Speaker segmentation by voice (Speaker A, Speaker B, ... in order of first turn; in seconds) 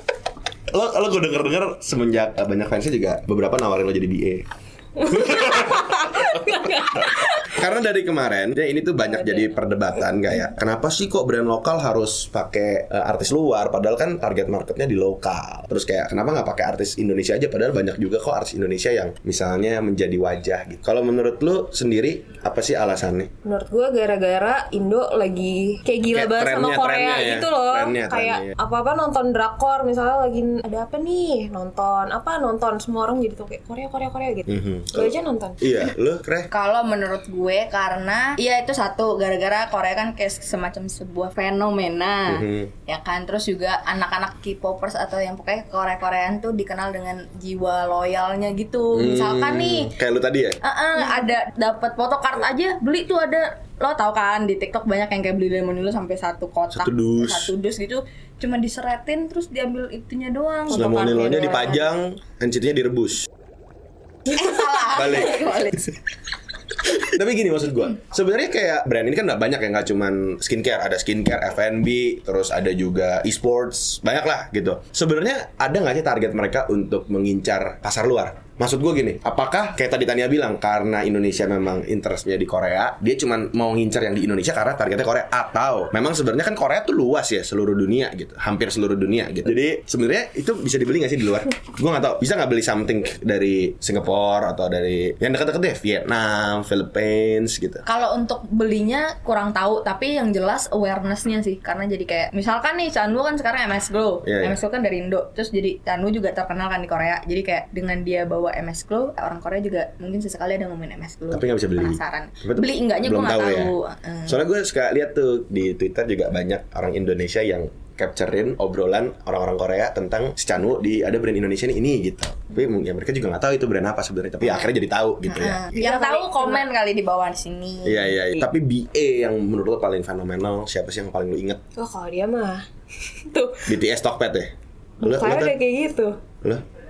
Speaker A: 0.7-4.5, 5.1-23.3, 26.1-28.5, 34.5-36.5, 42.3-42.7, 48.9-50.6, 56.7-57.5, 60.7-63.3, 64.9-65.9, 66.8-97.8, 104.2-104.6, 111.3-113.8, 114.3-125.7, 127.8-131.6, 133.7-134.5, 135.0-135.6
Speaker B: 5.0-7.6, 9.0-9.7, 23.4-35.6, 60.7-61.7, 125.7-126.7, 131.8-132.7, 133.3-133.7, 135.0-136.2
Speaker C: 36.5-50.0, 50.6-61.9, 64.3-65.9, 97.9-114.4, 125.3-128.4